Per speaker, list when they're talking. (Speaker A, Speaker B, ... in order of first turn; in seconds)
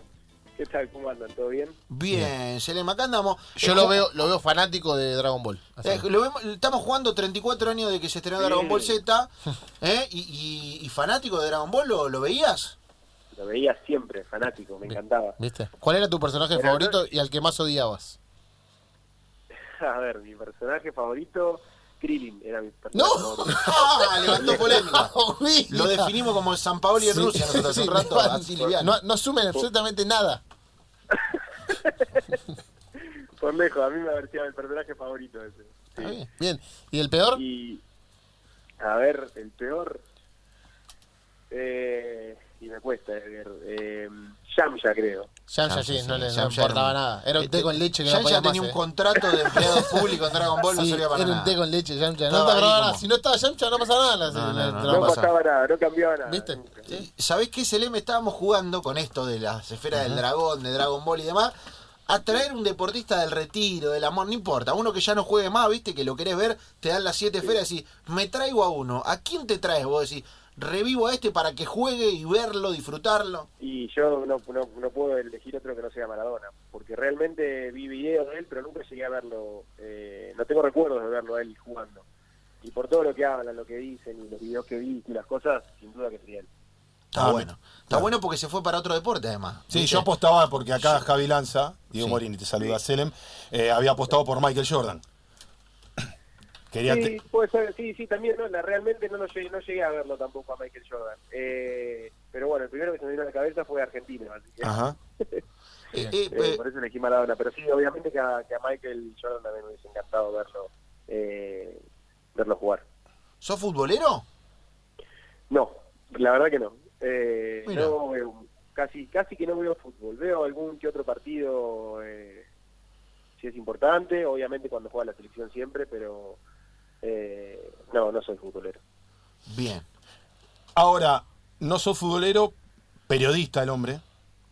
Speaker A: 0.6-1.8, 8.4-9.0, 13.3-15.4, 16.5-17.0, 19.8-23.6, 24.4-24.7, 31.1-32.2, 33.0-36.2, 37.3-37.8, 38.8-40.0, 41.5-45.3, 54.9-56.9, 73.6-82.0, 82.6-86.5, 96.8-105.4, 106.3-111.8, 112.3-112.8, 115.5-122.5, 123.4-126.4, 127.0-128.8
Speaker B: 1.9-4.0, 5.8-12.8, 23.6-25.1, 25.7-28.9, 36.0-36.3, 45.7-51.5, 52.3-53.0, 54.3-55.2, 56.9-61.5, 62.1-73.5, 87.1-90.1, 90.8-91.0, 106.0-106.6, 113.4-114.2, 117.7-118.0, 129.5-129.9
Speaker C: 3.6-6.0, 14.8-18.2, 22.9-26.1, 27.0-30.4, 36.4-37.4, 45.5-48.8, 49.5-49.8, 50.7-55.3, 56.2-56.6
Speaker D: 87.2-88.1, 89.7-95.0, 96.7-97.1, 104.6-104.9, 130.7-132.6, 133.1-134.0